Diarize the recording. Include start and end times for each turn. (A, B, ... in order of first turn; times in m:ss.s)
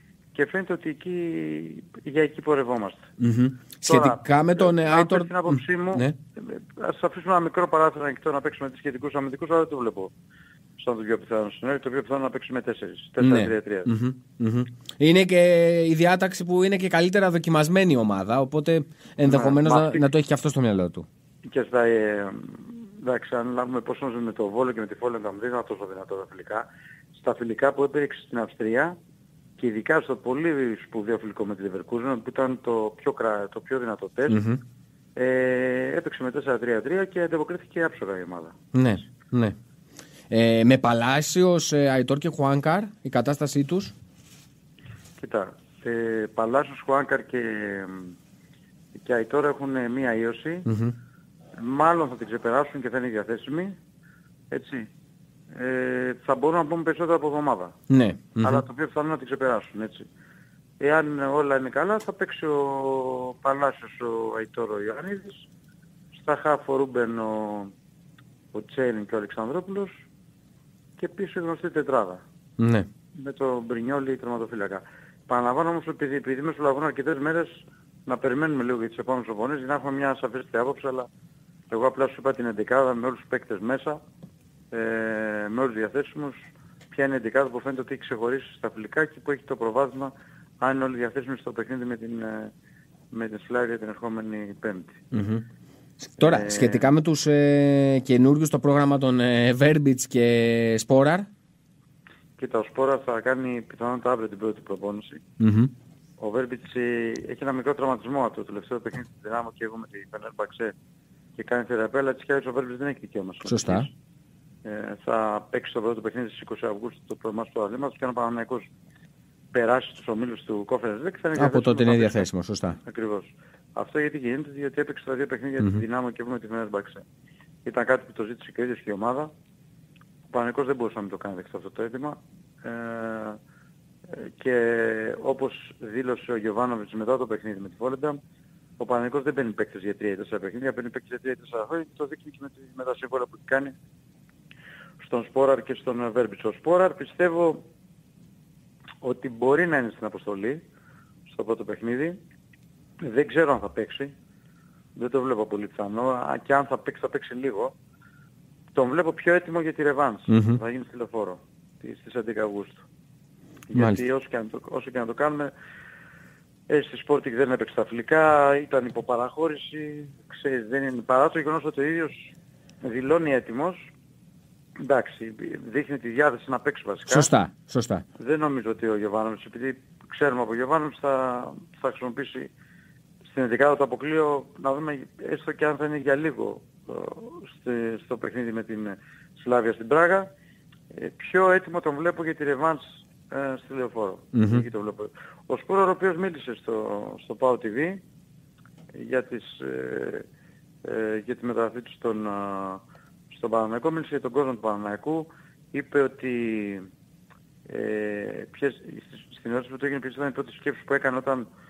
0:00.3-0:03.1 A
0:03.2-0:06.1 B
0:03.8-0:10.1 A
0:10.8-0:13.9 A
0:13.2-0:21.1 B
0:19.2-0:20.1 A
0:21.4-0:29.0 A
0:29.6-0:34.4 A
0:34.3-0:34.6 B
0:35.2-0:38.6 A
0:38.7-0:39.5 B
0:40.3-0:43.9 B
0:45.2-0:48.2 A
0:48.9-0:50.7 A
0:50.7-0:50.9 B
0:51.6-0:53.8 A
0:54.5-0:54.9 A
0:55.5-0:57.8 A
0:57.9-0:58.6 B
0:58.4-1:00.1 A
1:00.8-1:05.5 A
1:06.1-1:07.7 A
1:08.5-1:10.0 A
1:11.0-1:12.2 A
1:12.6-1:12.9 B
1:13.1-1:21.1 A
1:21.7-1:24.0 A
1:24.7-1:32.5 A
1:33.1-1:35.0 A
1:35.1-1:35.4 B
1:36.0-1:41.3 B
1:36.2-1:36.9 A
1:42.4-1:45.2 A
1:45.4-1:45.7 B
1:46.2-1:50.7 A
1:51.4-1:53.9 A
1:53.4-1:53.9 B
1:54.6-1:58.7 A
1:59.5-2:02.3 A
2:01.3-2:02.8 B
2:02.8-2:07.0 A
2:07.6-2:09.3 A
2:10.3-2:13.4 A
2:14.1-2:18.2 A
2:18.8-2:23.8 A
2:25.0-2:27.6 A
2:29.0-2:30.6 A
2:31.3-2:32.2 A
2:33.0-2:34.1 A
2:34.9-2:37.7 A
2:38.7-2:42.9 A
2:40.3-2:40.6 B
2:43.7-2:45.5 A
2:43.8-2:44.0 B
2:46.7-2:52.3 A
2:52.8-2:53.8 A
2:54.8-2:57.3 A
2:57.1-2:58.0 B
2:58.2-3:02.5 A
3:03.2-3:10.3 A
3:10.9-3:18.0 A
3:14.3-3:14.6 B
3:18.9-3:20.2 A
3:20.8-3:26.9 A
3:27.7-3:31.5 A